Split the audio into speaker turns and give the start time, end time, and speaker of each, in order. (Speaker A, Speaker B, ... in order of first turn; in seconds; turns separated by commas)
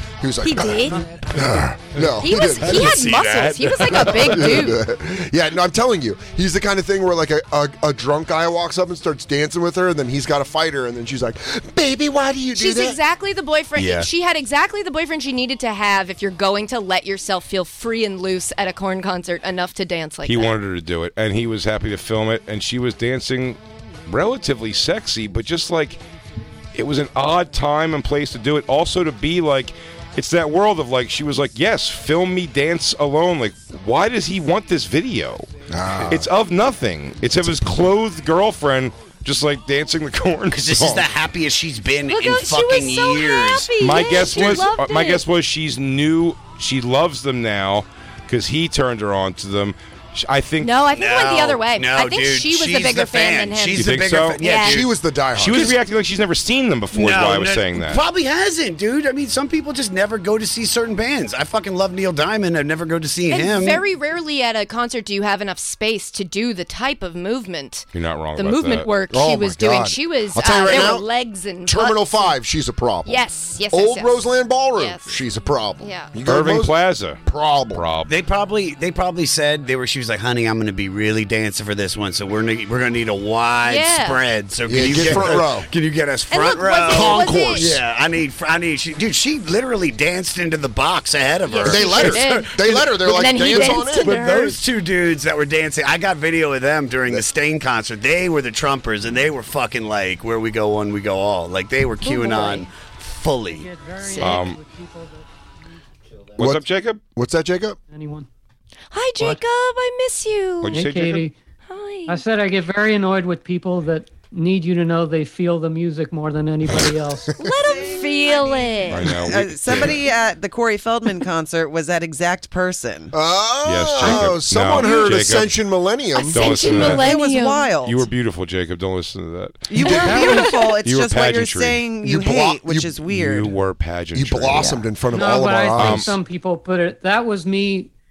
Speaker A: 0.2-2.9, Speaker B: 0.4-1.2, Speaker C: 2.0-4.7, Speaker B: 2.2-4.8, Speaker A: 4.0-13.0, Speaker B: 12.5-20.6, Speaker C: 13.8-14.1, Speaker D: 20.2-26.0, Speaker D: 26.7-35.5, Speaker A: 35.7-36.3, Speaker D: 36.1-41.1, Speaker C: 40.5-44.6, Speaker B: 42.1-45.2, Speaker D: 43.8-50.8, Speaker B: 50.6-54.8, Speaker C: 50.9-54.9, Speaker D: 53.7-54.4, Speaker A: 54.6-55.8, Speaker D: 55.3-58.0, Speaker C: 56.9-63.8, Speaker B: 63.3-72.4, Speaker D: 67.9-69.0, Speaker A: 69.1-71.1, Speaker A: 71.6-77.8, Speaker B: 73.0-74.2, Speaker B: 74.7-75.1, Speaker B: 75.8-76.2, Speaker D: 76.2-77.2, Speaker D: 77.7-78.1, Speaker C: 78.1-103.7, Speaker B: 83.6-84.2, Speaker A: 84.7-85.7, Speaker B: 84.9-85.4, Speaker B: 86.3-87.7, Speaker A: 86.8-87.8, Speaker B: 91.5-94.6, Speaker A: 91.6-94.2, Speaker B: 102.0-102.7, Speaker E: 103.5-105.2, Speaker B: 104.0-104.4, Speaker D: 104.2-104.6, Speaker D: 106.4-107.0, Speaker A: 106.4-107.8, Speaker E: 107.9-108.3, Speaker B: 108.9-110.9, Speaker D: 110.6-111.3, Speaker E: 110.7-111.3, Speaker B: 111.7-112.2, Speaker E: 112.1-117.4, Speaker B: 117.3-119.2, Speaker F: 117.5-123.2, Speaker D: 118.9-120.0, Speaker A: 123.1-127.0, Speaker D: 123.6-125.6, Speaker F: 126.2-128.1, Speaker D: 126.3-127.1, Speaker B: 126.3-127.7, Speaker D: 127.8-131.9, Speaker F: 129.7-133.6, Speaker A: 129.8-130.4, Speaker E: 129.9-130.4, Speaker B: 130.3-130.7, Speaker A: 132.0-132.9, Speaker D: 133.0-136.2, Speaker A: 134.1-136.2, Speaker E: 135.1-137.9